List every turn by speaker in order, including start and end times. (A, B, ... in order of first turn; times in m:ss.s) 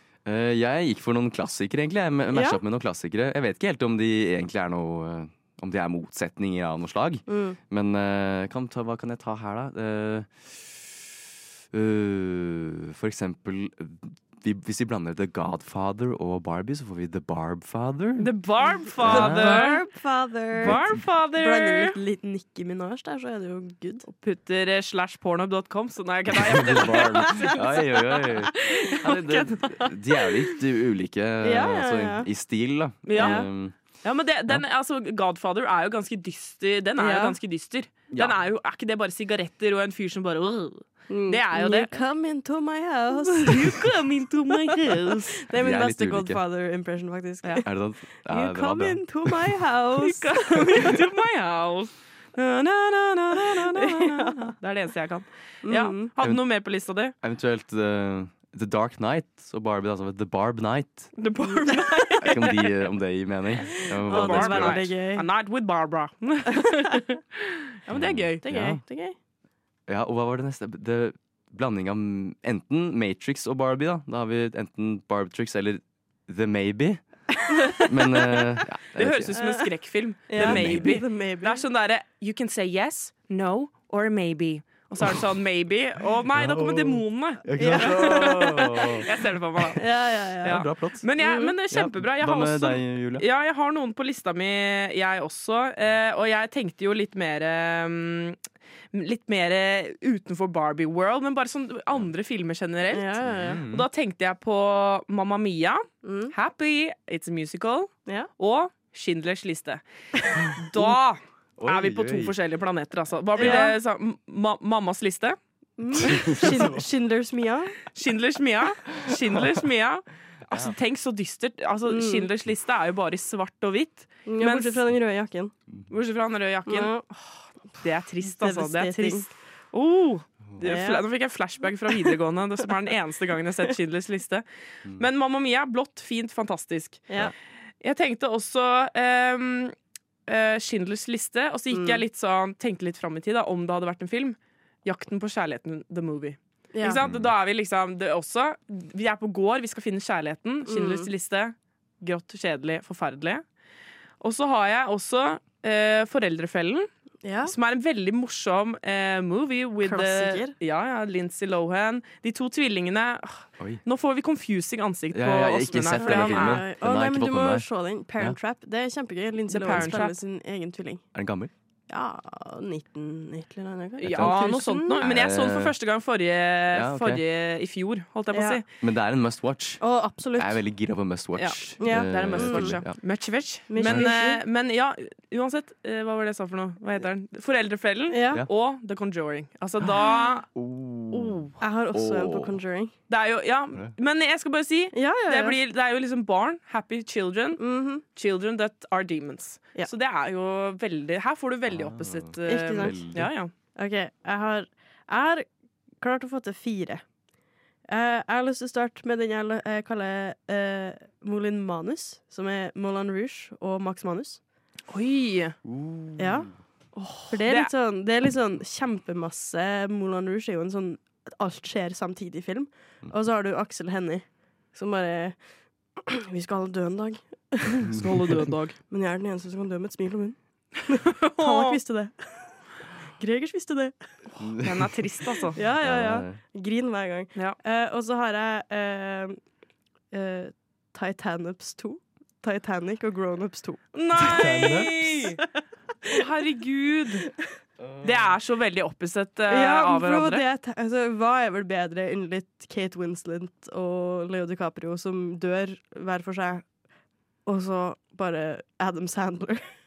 0:00.2-0:11.1 A
0:02.3-0:02.6 B
0:07.3-0:07.6 B
0:11.7-0:18.3 A
0:18.2-0:19.8 C
0:19.0-0:19.7 A
0:19.0-0:20.8 B
0:20.6-0:22.0 C
0:20.6-0:21.0 A
0:21.4-0:24.1 B
0:24.0-0:30.3 C
0:26.3-0:33.7 A
0:31.4-0:32.3 B
0:33.1-0:33.4 C
0:33.1-0:33.5 B
0:34.0-0:41.9 C
0:37.0-0:37.4 B
0:38.1-0:38.4 A
0:41.1-0:43.8 B
0:43.4-0:45.4 C
0:44.6-0:47.7 B
0:45.5-0:46.4 A
0:47.6-0:49.5 A
0:48.3-0:51.0 B
0:50.0-0:57.1 C
0:53.6-0:54.5 B
0:55.6-0:56.1 B
0:57.2-1:01.1 A
1:01.2-1:02.6 C
1:01.5-1:02.4 B
1:02.2-1:04.9 A
1:03.8-1:05.3 B
1:04.1-1:08.5 C
1:07.9-1:08.8 A
1:08.4-1:09.2 B
1:09.9-1:17.0 A
1:17.8-1:19.6 A
1:19.0-1:29.9 C
1:19.4-1:19.7 B
1:20.3-1:21.6 B
1:20.4-1:21.0 A
1:26.3-1:29.1 A
1:27.6-1:29.1 B
1:29.7-1:30.6 B
1:30.4-1:38.4 C
1:30.4-1:31.0 A
1:31.2-1:31.6 B
1:31.7-1:33.2 A
1:38.9-1:49.8 C
1:42.9-1:43.6 B
1:43.2-1:43.9 A
1:46.0-1:46.3 B
1:50.2-1:50.5 B
1:50.5-1:55.4 C
1:51.6-1:52.4 A
1:53.4-1:53.8 B
1:53.4-1:53.7 A
1:55.8-1:57.8 B
1:56.1-1:56.7 C
1:56.1-1:56.7 A
1:57.9-2:04.8 C
2:01.9-2:02.3 B
2:04.3-2:05.5 B
2:05.9-2:17.1 C
2:06.7-2:07.0 B
2:08.3-2:09.3 B
2:10.6-2:11.0 B
2:17.8-2:19.8 C
2:20.3-2:33.4 C
2:21.7-2:22.0 B
2:26.7-2:27.0 B
2:27.0-2:27.3 A
2:30.7-2:31.1 B
2:34.2-2:36.9 C
2:37.2-2:37.5 B
2:37.4-2:46.6 C
2:39.8-2:40.5 B
2:45.1-2:47.7 A
2:46.0-2:51.0 B
2:49.5-2:50.2 C
2:51.1-2:51.5 A
2:51.9-2:55.0 B
2:54.0-2:58.6 C
2:54.0-2:54.4 A
2:55.0-2:55.8 A
2:56.7-2:57.2 A
2:58.3-2:58.6 B
2:58.8-3:03.0 A
2:59.8-3:00.6 B
3:01.4-3:10.5 C
3:01.8-3:02.8 B
3:03.7-3:04.4 B
3:03.8-3:04.1 A
3:08.1-3:08.4 B
3:10.5-3:11.4 A
3:11.1-3:11.6 C
3:11.6-3:12.9 B
3:11.9-3:12.6 A
3:13.1-3:17.6 C
3:14.9-3:15.6 B
3:17.6-3:18.0 B
3:18.2-3:23.5 C
3:21.7-3:23.3 A
3:22.5-3:23.1 B
3:23.8-3:25.5 B
3:26.0-3:27.0 B
3:27.9-3:34.4 B
3:34.9-3:35.6 C
3:35.6-3:36.5 A
3:36.2-3:36.5 B
3:37.0-3:37.7 C
3:37.3-3:45.4 B
3:46.0-3:47.9 B
3:47.7-3:48.8 C
3:48.9-3:50.4 B
3:50.9-3:52.2 B
3:51.0-3:51.8 C
3:53.2-3:54.0 B
3:54.4-3:54.8 A
3:54.5-3:55.6 C
3:55.5-3:59.4 B
3:55.6-3:56.4 A
4:00.1-4:03.8 B
4:03.9-4:05.4 C
4:04.2-4:05.1 A
4:06.1-4:07.3 C
4:08.0-4:10.4 C
4:09.5-4:16.6 B
4:17.5-4:19.6 B